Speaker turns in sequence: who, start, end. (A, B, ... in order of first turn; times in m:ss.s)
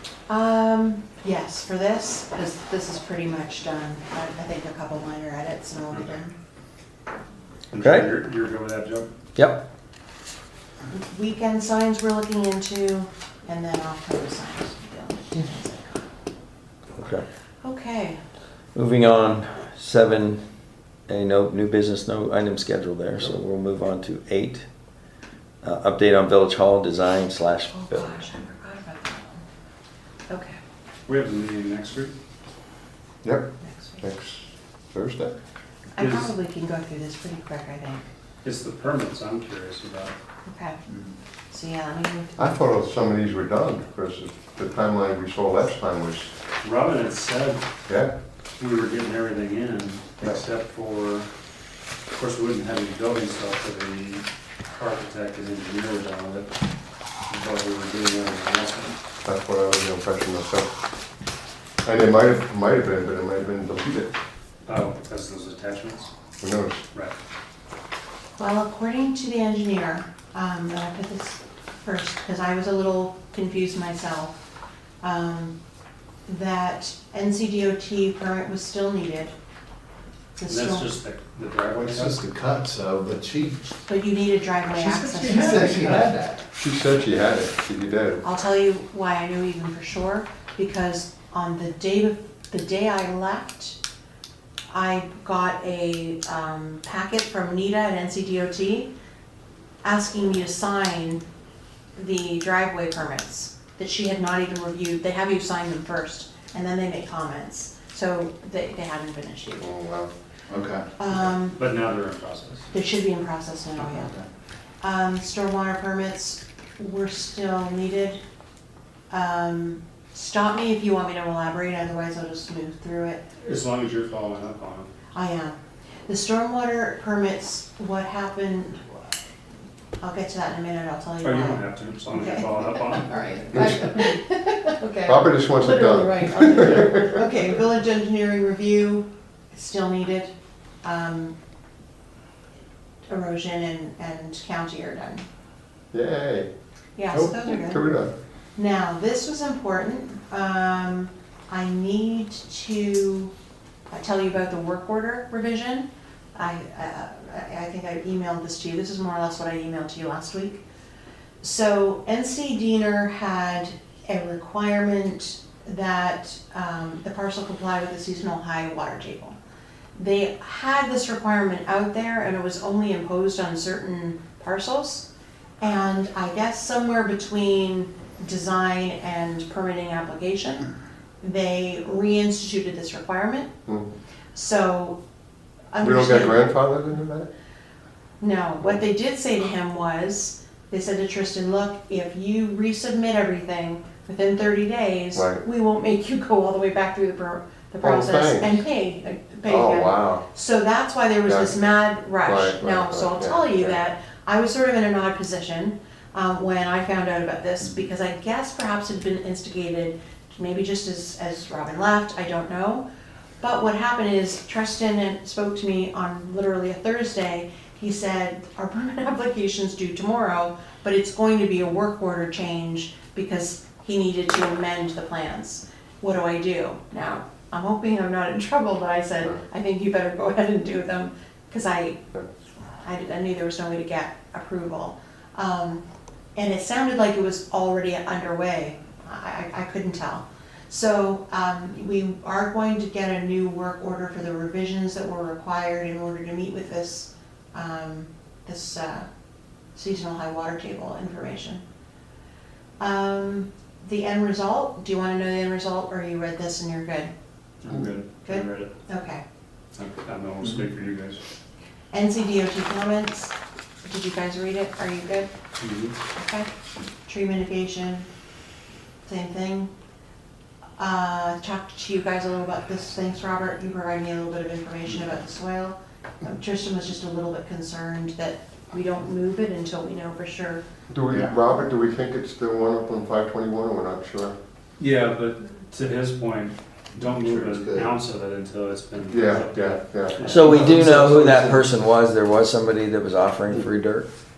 0:00.3-0:06.3 A
0:07.7-0:09.1 B
0:07.8-0:08.1 C
0:09.4-0:09.6 C
0:10.9-0:16.0 A
0:16.9-0:17.2 C
0:17.6-0:18.2 A
0:18.7-0:20.4 C
0:21.1-0:24.6 C
0:25.6-0:28.2 C
0:27.7-0:29.4 A
0:30.3-0:30.6 A
0:31.1-0:32.1 B
0:33.2-0:35.4 D
0:33.6-0:34.0 A
0:36.0-0:38.0 A
0:36.0-0:36.3 B
0:38.4-0:40.1 B
0:40.4-0:40.8 A
0:41.5-0:42.6 A
0:42.4-0:46.3 D
0:46.6-0:47.6 B
0:47.9-0:48.1 D
0:48.6-0:51.3 B
0:52.1-0:56.5 B
0:57.3-0:59.0 B
0:59.2-1:00.7 D
1:01.8-1:04.1 D
1:04.6-1:06.1 B
1:06.4-1:06.8 D
1:08.4-1:14.4 A
1:15.0-1:15.6 A
1:16.3-1:19.3 A
1:20.4-1:20.9 A
1:20.4-1:22.2 B
1:21.7-1:23.7 E
1:23.8-1:26.0 A
1:24.8-1:26.5 E
1:26.5-1:28.2 D
1:28.2-1:33.8 A
1:34.7-1:38.9 A
1:39.8-1:41.2 A
1:42.0-1:49.7 A
1:49.6-1:50.1 D
1:50.5-1:50.8 E
1:51.0-1:51.6 A
1:51.5-1:52.7 B
1:52.7-1:54.2 A
1:54.8-1:58.2 A
1:59.1-2:03.2 A
2:03.4-2:04.9 B
2:05.1-2:05.6 A
2:06.1-2:09.1 A
2:10.0-2:21.3 A
2:11.2-2:13.8 B
2:15.0-2:17.3 D
2:23.1-2:25.2 A
2:25.9-2:26.5 D
2:27.0-2:27.8 A
2:27.1-2:28.1 D
2:28.6-2:33.3 A
2:33.9-2:40.6 A
2:41.4-2:49.4 A
2:50.0-2:55.1 A
2:55.6-3:03.5 A
3:04.3-3:05.0 A
3:05.7-3:06.4 A
3:05.8-3:07.3 D
3:08.2-3:32.8 A
3:15.2-3:15.4 D
3:17.8-3:18.6 D
3:19.4-3:20.2 D
3:21.2-3:21.6 D
3:22.2-3:23.8 D
3:33.4-3:52.1 A
3:52.8-3:55.8 A
3:56.4-4:09.1 A
4:09.7-4:11.6 A
4:12.8-4:17.1 A
4:17.6-4:18.7 B
4:18.2-4:19.2 A
4:19.8-4:21.2 B
4:21.9-4:25.3 A
4:25.6-4:25.9 B
4:26.1-4:26.5 A
4:27.0-4:28.1 A
4:29.0-4:29.7 A
4:30.8-4:40.6 A
4:40.9-4:44.4 D
4:41.1-4:41.4 E
4:44.8-4:50.6 B
4:47.0-4:48.0 E
4:49.1-4:50.9 D
4:50.2-4:54.1 C
4:50.5-4:51.7 E